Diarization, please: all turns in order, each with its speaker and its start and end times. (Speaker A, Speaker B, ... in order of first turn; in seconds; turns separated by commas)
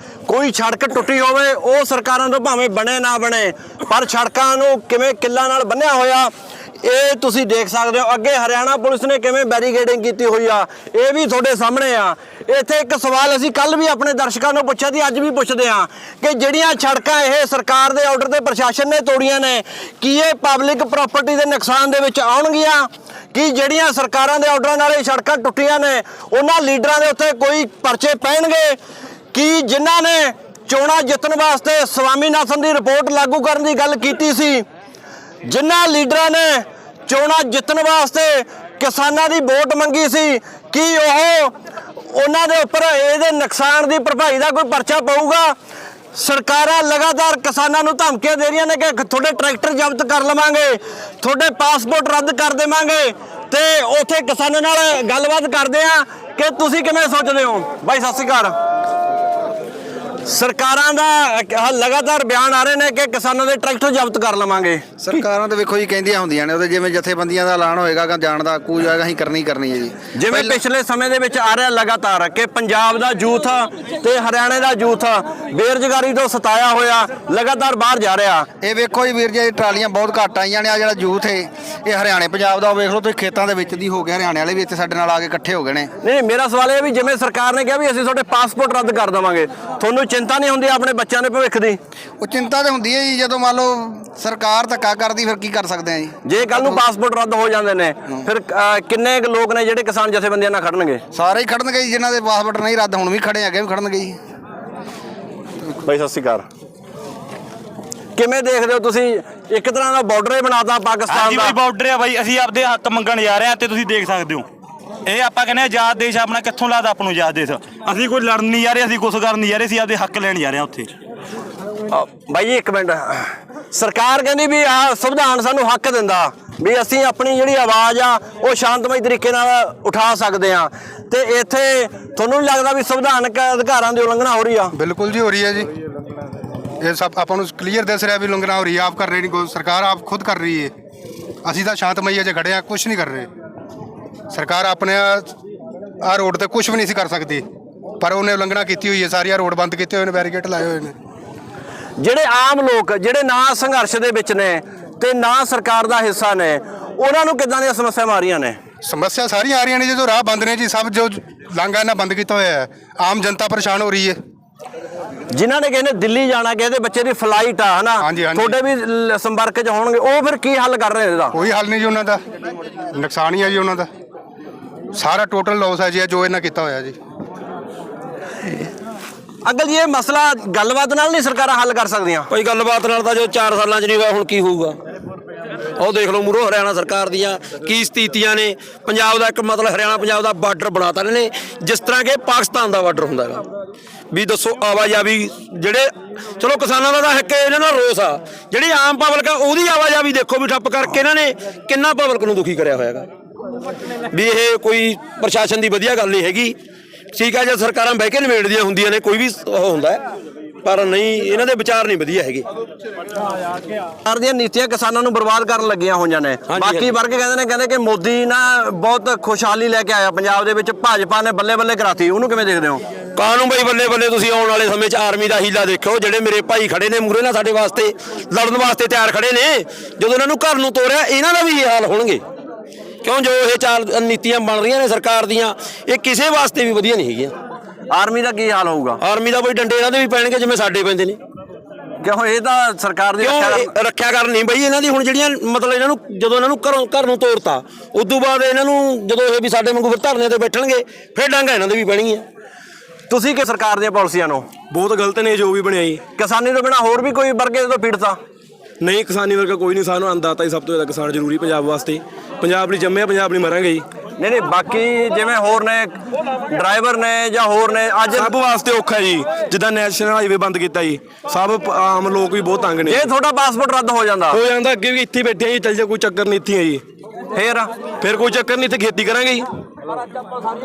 Speaker A: 0.3-28.8, Speaker A: 29.3-34.6, Speaker A: 35.5-41.5, Speaker A: 42.1-45.5, Speaker A: 46.1-58.6, Speaker A: 60.2-65.0, Speaker B: 65.0-70.6, Speaker A: 70.2-78.5, Speaker B: 78.6-85.9, Speaker A: 86.0-91.8, Speaker B: 92.2-96.8, Speaker A: 96.2-101.0, Speaker B: 101.1-104.2, Speaker A: 105.8-106.5, Speaker A: 108.2-111.6, Speaker C: 111.1-114.5, Speaker C: 115.1-120.9, Speaker A: 121.9-134.7, Speaker D: 134.8-135.7, Speaker D: 136.8-140.7, Speaker D: 141.4-143.3, Speaker D: 144.3-145.3, Speaker D: 146.0-147.4, Speaker D: 148.0-150.9, Speaker A: 152.0-158.6, Speaker D: 158.8-164.2, Speaker A: 165.3-171.4, Speaker D: 168.0-168.6, Speaker D: 171.3-172.2, Speaker D: 172.9-173.9, Speaker D: 174.9-177.0, Speaker A: 179.4-182.3, Speaker E: 182.3-184.8, Speaker E: 185.8-193.4, Speaker E: 194.1-203.1, Speaker E: 204.1-206.6, Speaker E: 207.1-210.0, Speaker E: 210.6-212.5, Speaker A: 214.0-222.8, Speaker E: 216.5-216.9, Speaker E: 223.2-232.2, Speaker E: 233.0-237.3, Speaker A: 237.9-239.0, Speaker E: 239.0-241.2, Speaker A: 242.0-243.7, Speaker E: 243.2-252.2, Speaker A: 253.1-254.5, Speaker F: 254.7-256.0, Speaker A: 256.2-258.2, Speaker F: 258.8-263.9, Speaker A: 264.2-268.3, Speaker F: 268.1-273.1, Speaker A: 272.8-274.4, Speaker F: 274.3-276.8, Speaker A: 277.3-277.7, Speaker E: 278.0-279.4, Speaker F: 278.4-279.3